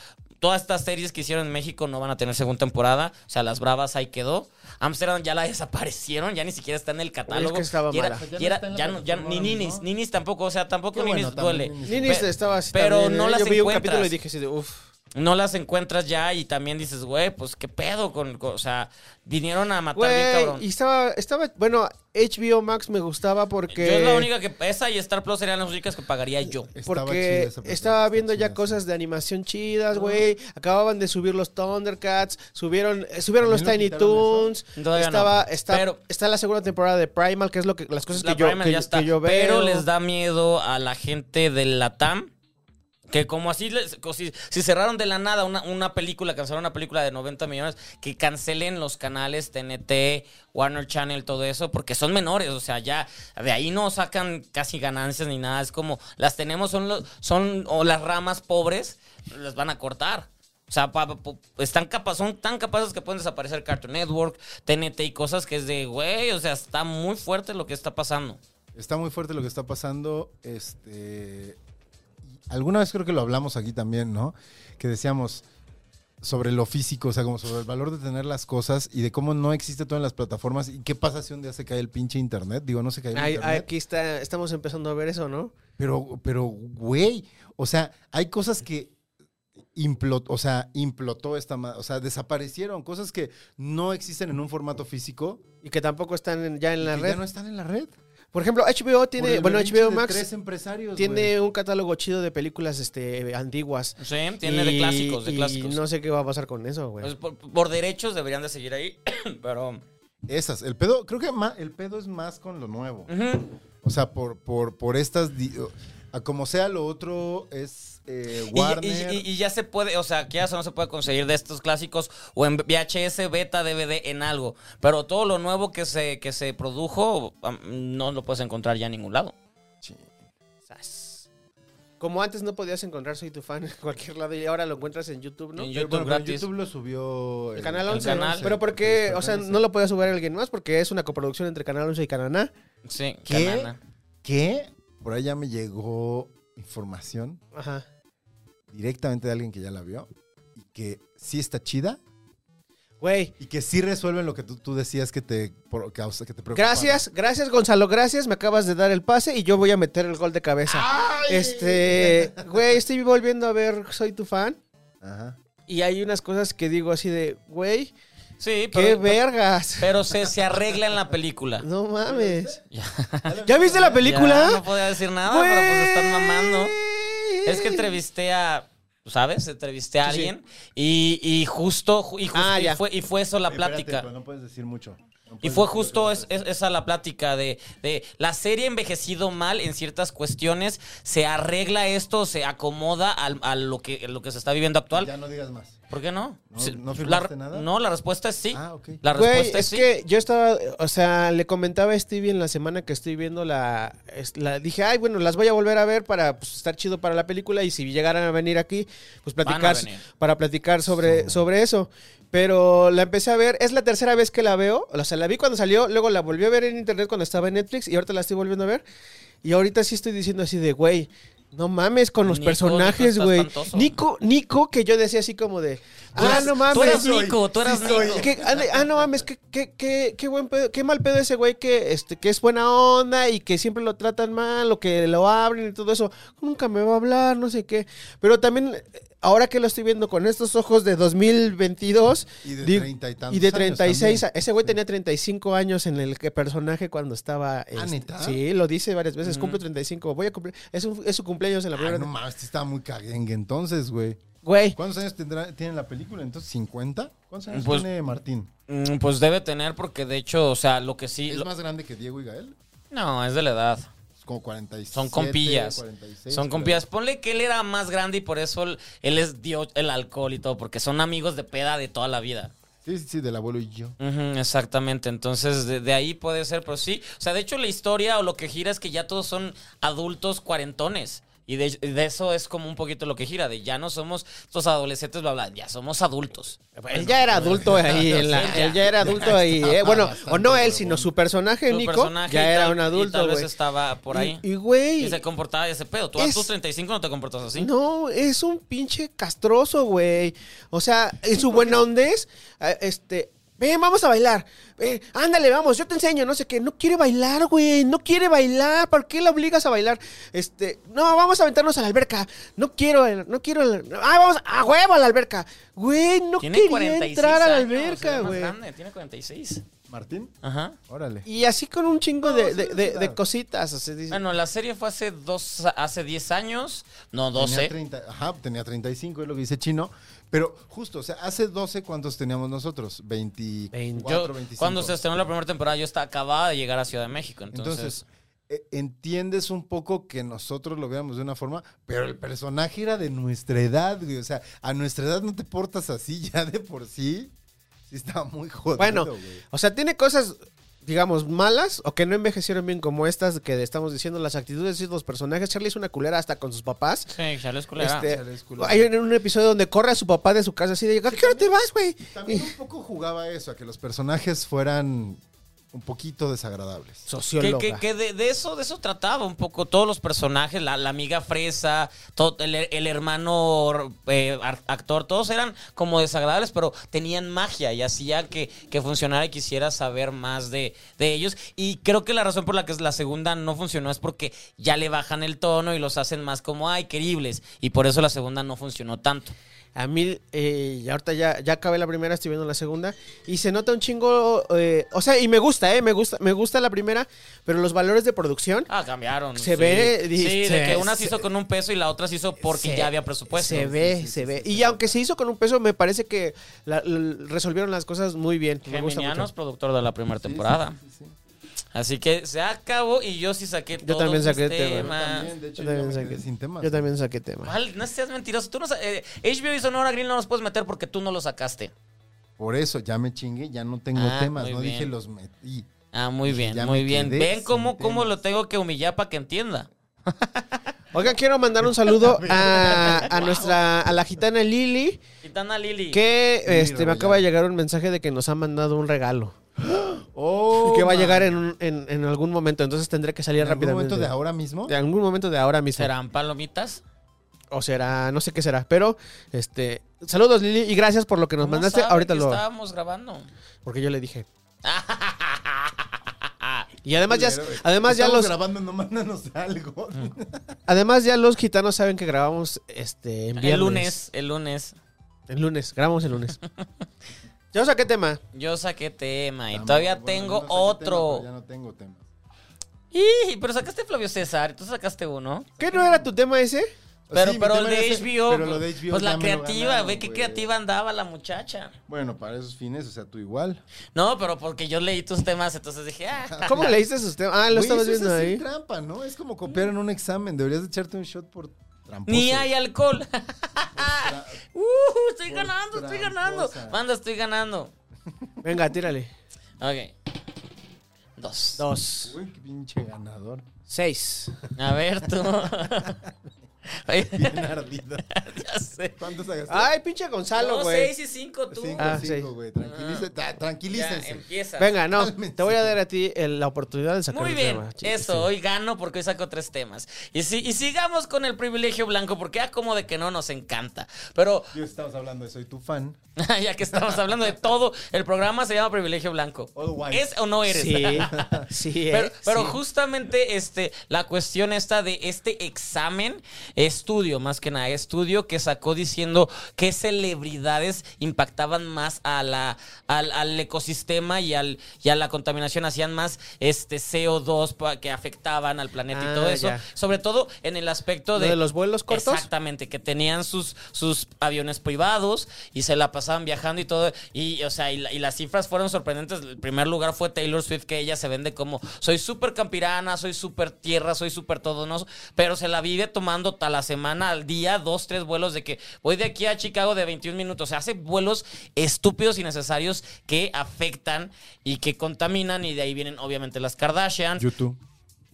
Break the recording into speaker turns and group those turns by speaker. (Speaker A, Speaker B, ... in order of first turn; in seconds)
Speaker A: 0.4-14.1, 15.1-20.6, 23.7-26.7, 34.8-36.0, 38.1-42.3, 43.1-68.4, 104.0-105.8, 107.0-109.8, 113.1-113.5, 118.5-129.3, 135.6-136.5, 137.9-138.5, 142.8-143.8, 168.4-169.2, 169.8-171.7, 172.7-173.3, 174.0-176.8, 177.4-184.1, 185.4-195.1, 195.9-199.9, 209.4-210.0, 222.2-223.9, 226.2-228.3, 249.2-249.6, 257.5-257.9, 258.7-261.5, 262.9-263.9, 264.9-272.5, 274.0-286.6, 287.9-288.9, 291.7-294.4, 295.0-297.7, 316.4-319.6, 320.4-320.8, 324.1-327.7, 334.0-338.0, 357.1-358.1, 367.4-389.3, 398.7-403.7, 408.6-410.8, 411.7-415.3, 417.4-421.7, 423.9-424.9, 425.9-430.6, 432.9-433.4, 435.2-436.0, 445.8-446.8, 451.4-453.3, 454.6-456.7, 463.4-464.7, 468.3-471.2, 472.9-475.5, 477.1-481.7, 483.9-486.8, 492.1-497.7, 499.6-499.9, 501.2-501.6, 504.6-506.0, 506.8-507.5, 508.1-509.0, 510.4-512.0, 512.6-513.1, 513.7-514.7, 517.1-524.5, 526.2-531.4, 531.9-577.3
Speaker B: 7.3-8.2, 11.8-14.8, 19.9-24.3, 26.8-39.8, 83.1-85.5, 95.6-97.2, 98.3-100.2, 101.0-107.1, 130.7-131.2, 132.0-135.7, 137.6-142.5, 147.5-147.8, 153.0-153.3, 156.5-164.6, 165.7-167.9, 168.7-169.9, 171.6-172.5, 173.4-174.6, 175.2-177.8, 180.0-180.3, 182.3-182.8, 199.1-218.8, 219.4-227.0, 228.1-252.1, 254.4-254.8, 286.8-293.5, 294.1-295.2, 296.2-296.5, 297.6-318.5, 321.2-324.2, 333.7-334.1, 348.8-357.1, 357.8-362.5, 367.1-367.8, 389.8-398.7, 399.4-401.2, 402.4-409.3, 413.8-414.9, 415.6-417.5, 430.9-435.0, 435.9-439.4, 440.6-444.1, 444.7-445.9, 447.5-452.4, 453.6-454.2, 456.8-458.3, 460.7-463.9, 465.3-466.4, 467.5-468.2, 475.6-476.7, 486.4-488.4, 498.4-499.1, 501.6-502.1, 503.7-504.4, 509.5-510.9, 511.8-512.3, 514.6-518.3, 530.5-532.6, 548.9-549.6, 551.1-552.3
Speaker C: 8.1-9.8, 10.9-12.5, 26.7-28.8, 33.4-34.5, 68.7-71.6, 72.2-75.4, 76.2-83.7, 85.8-88.9, 89.7-95.4, 96.8-97.9, 99.2-101.3, 110.3-113.1, 113.8-119.2, 129.8-130.1, 135.7-139.6, 143.2-147.4, 148.7-152.0, 153.4-157.1, 160.7-162.8, 165.0-165.4, 172.1-172.6, 173.2-174.2, 183.5-186.4, 194.9-195.8, 196.5-197.7, 198.5-199.0, 210.9-211.4, 226.1-229.1, 242.4-244.7, 247.7-248.4, 251.7-254.2, 254.7-258.5, 261.3-262.6, 264.2-266.8, 272.8-274.0, 286.9-291.1, 319.9-320.3, 320.9-321.3, 322.2-323.2, 327.4-335.0, 337.5-347.3, 347.9-349.4, 358.0-358.9, 361.1-367.1, 403.3-405.0, 410.1-411.1, 414.7-416.9, 422.4-425.7, 426.2-428.2, 431.6-434.0, 436.4-437.2, 439.7-441.3, 443.4-444.7, 457.0-460.6, 469.5-472.1, 475.6-476.1, 477.1-480.5, 481.9-483.6, 486.3-486.7, 487.5-492.5, 493.7-494.4, 495.2-496.8, 498.1-498.6, 502.0-503.4, 505.2-506.1, 507.1-508.1, 509.0-509.7, 511.5-514.2, 514.9-515.8, 524.5-526.0, 526.7-527.2, 529.5-530.1, 530.7-531.5, 577.2-577.6